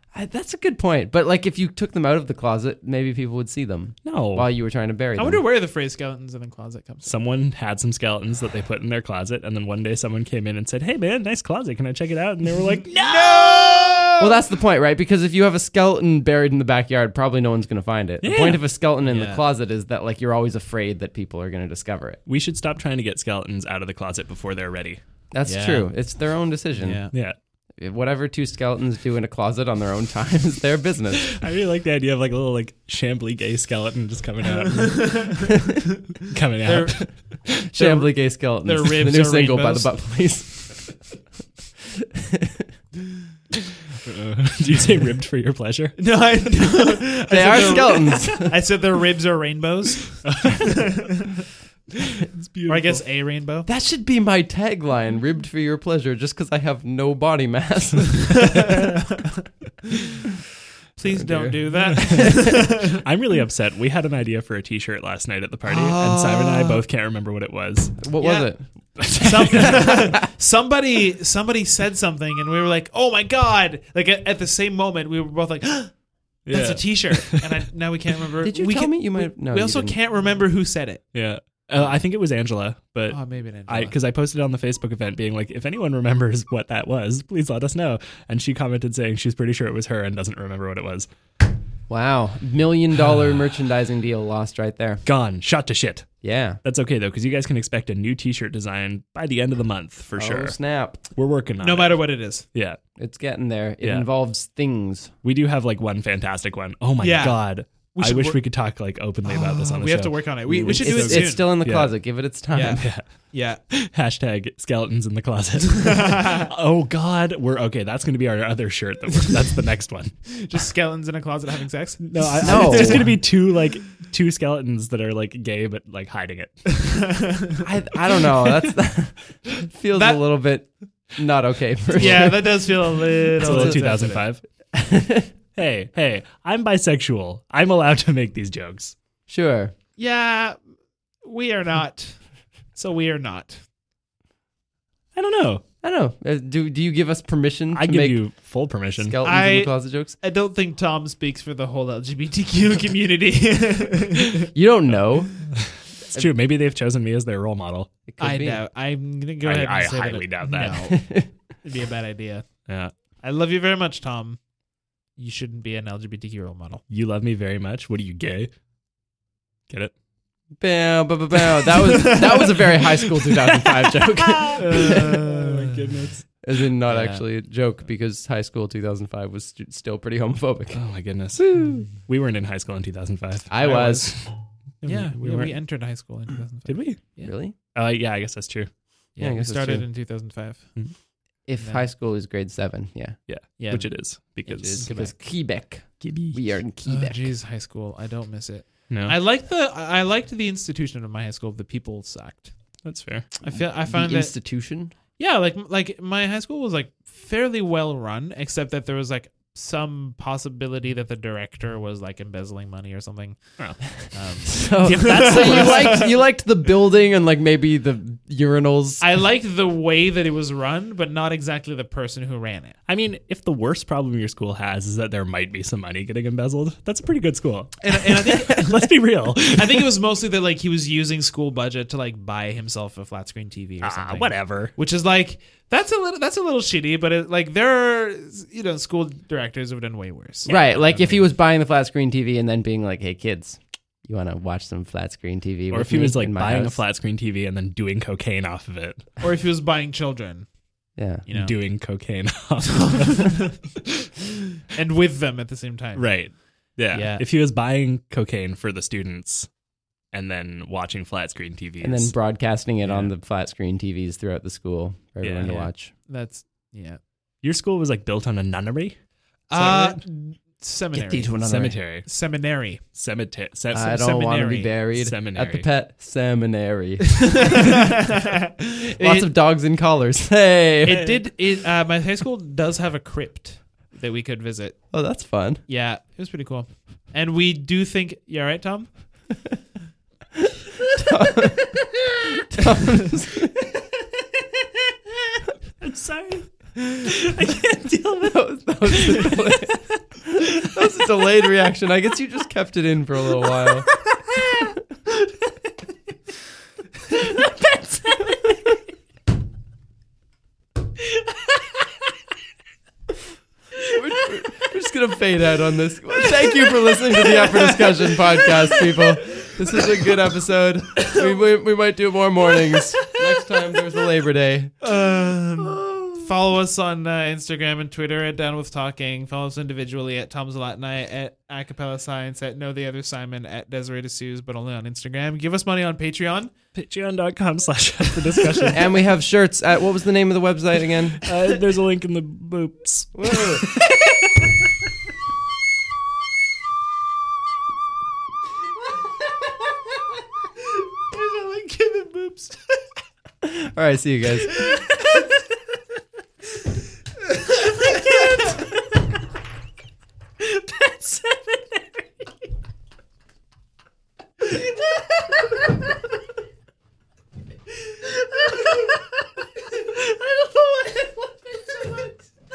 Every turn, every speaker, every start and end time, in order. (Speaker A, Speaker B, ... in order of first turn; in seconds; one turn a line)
Speaker A: 0.1-5.4
Speaker B: 4.0-4.5
Speaker C: 5.2-7.1
Speaker B: 7.0-14.1
Speaker C: 12.9-14.4
Speaker A: 14.2-22.2
Speaker B: 18.2-18.6
Speaker C: 19.1-19.4
Speaker B: 22.3-25.0
Speaker A: 25.3-27.0
Speaker C: 25.4-25.9
Speaker C: 26.8-27.1
Speaker B: 27.1-27.4
Speaker A: 27.8-31.4
Speaker B: 31.2-35.6
Speaker C: 34.8-35.8
Speaker B: 36.2-37.7
Speaker C: 36.6-40.0
Speaker A: 37.7-41.0
Speaker A: 42.0-42.7
Speaker B: 44.0-46.0
Speaker C: 46.0-51.3
Speaker A: 47.3-48.6
Speaker B: 50.2-50.9
Speaker B: 52.0-53.0
Speaker C: 52.7-53.7
Speaker A: 53.7-58.7
Speaker C: 58.5-59.4
Speaker C: 61.0-63.0
Speaker A: 61.1-62.2
Speaker B: 61.9-68.0
Speaker C: 65.8-66.2
Speaker A: 66.0-66.8
Speaker A: 68.0-70.2
Speaker C: 68.2-68.5
Speaker B: 69.0-69.9
Speaker C: 69.1-75.9
Speaker B: 76.5-77.4
Speaker C: 76.5-81.0
Speaker A: 78.4-80.0
Speaker B: 81.1-91.1
Speaker C: 83.1-84.0
Speaker A: 91.9-95.0
Speaker B: 95.0-100.6
Speaker A: 96.2-96.6
Speaker A: 100.1-101.0
Speaker B: 101.1-102.8
Speaker C: 101.6-102.5
Speaker A: 103.0-105.1
Speaker B: 103.8-104.1
Speaker B: 105.2-120.3
Speaker C: 107.0-108.4
Speaker C: 109.2-111.6
Speaker A: 110.5-112.9
Speaker C: 112.5-113.6
Speaker C: 115.8-116.5
Speaker C: 120.3-123.1
Speaker B: 122.0-127.0
Speaker A: 122.4-123.2
Speaker C: 126.8-127.6
Speaker A: 127.6-132.6
Speaker C: 129.9-130.2
Speaker C: 131.9-134.2
Speaker B: 132.0-132.4
Speaker A: 133.4-134.2
Speaker B: 133.4-134.4
Speaker A: 134.7-135.3
Speaker B: 135.6-138.9
Speaker A: 139.3-139.7
Speaker C: 140.0-140.6
Speaker C: 141.2-142.2
Speaker C: 142.7-143.6
Speaker B: 145.1-145.6
Speaker A: 145.8-148.3
Speaker B: 147.7-149.2
Speaker A: 149.0-150.1
Speaker C: 149.2-154.5
Speaker A: 154.5-155.5
Speaker B: 155.5-157.9
Speaker A: 158.1-158.6
Speaker C: 158.2-162.7
Speaker B: 159.4-160.8
Speaker A: 160.9-161.3
Speaker B: 162.7-162.9
Speaker C: 163.2-164.4
Speaker C: 165.2-166.8
Speaker B: 166.9-168.5
Speaker B: 169.7-169.9
Speaker A: 170.6-175.3
Speaker C: 171.9-172.4
Speaker C: 174.5-175.7
Speaker B: 174.6-176.3
Speaker A: 176.4-180.8
Speaker C: 176.9-177.2
Speaker B: 180.7-185.6
Speaker A: 181.3-181.9
Speaker A: 183.5-184.1
Speaker C: 183.6-183.9
Speaker C: 184.8-187.3
Speaker B: 186.7-187.0
Speaker A: 187.2-187.5
Speaker B: 187.7-188.7
Speaker C: 189.2-190.7
Speaker A: 189.2-189.9
Speaker A: 191.5-193.2
Speaker B: 193.3-194.9
Speaker C: 193.6-195.1
Speaker A: 194.6-197.3
Speaker B: 196.0-196.5
Speaker C: 196.9-202.5
Speaker B: 198.9-199.2
Speaker B: 202.8-203.3
Speaker C: 203.4-204.3
Speaker A: 203.5-204.9
Speaker C: 205.2-216.2
Speaker B: 213.6-214.1
Speaker A: 214.5-219.0
Speaker C: 219.0-222.7
Speaker B: 222.9-229.9
Speaker C: 227.8-240.6
Speaker B: 233.8-234.7
Speaker B: 240.4-241.2
Speaker A: 240.5-246.8
Speaker B: 245.7-249.1
Speaker C: 249.2-250.5
Speaker A: 250.9-251.2
Speaker C: 251.2-251.6
Speaker B: 251.3-253.7
Speaker C: 252.8-253.6
Speaker C: 254.7-256.1
Speaker B: 255.9-259.5
Speaker C: 256.9-257.2
Speaker B: 260.1-262.1
Speaker A: 261.8-265.9
Speaker B: 265.2-265.5
Speaker C: 265.4-267.0
Speaker B: 267.4-268.9
Speaker C: 269.5-271.4
Speaker B: 269.5-270.0
Speaker A: 270.9-271.8
Speaker B: 271.4-272.1
Speaker C: 271.9-272.8
Speaker B: 272.9-273.9
Speaker A: 273.7-277.8
Speaker C: 273.8-274.7
Speaker B: 274.9-275.7
Speaker C: 277.2-279.3
Speaker A: 279.0-281.1
Speaker C: 280.9-284.8
Speaker A: 284.9-285.6
Speaker C: 285.7-288.9
Speaker A: 290.9-293.6
Speaker B: 295.8-299.8
Speaker A: 298.2-304.1
Speaker A: 313.8-324.7
Speaker C: 317.6-317.9
Speaker C: 324.8-336.5
Speaker A: 325.8-326.1
Speaker B: 336.7-339.0
Speaker A: 338.7-341.3
Speaker B: 341.2-343.8
Speaker A: 343.1-343.7
Speaker C: 351.1-352.8
Speaker A: 353.4-354.7
Speaker C: 354.5-354.8
Speaker C: 357.9-358.4
Speaker C: 370.3-372.1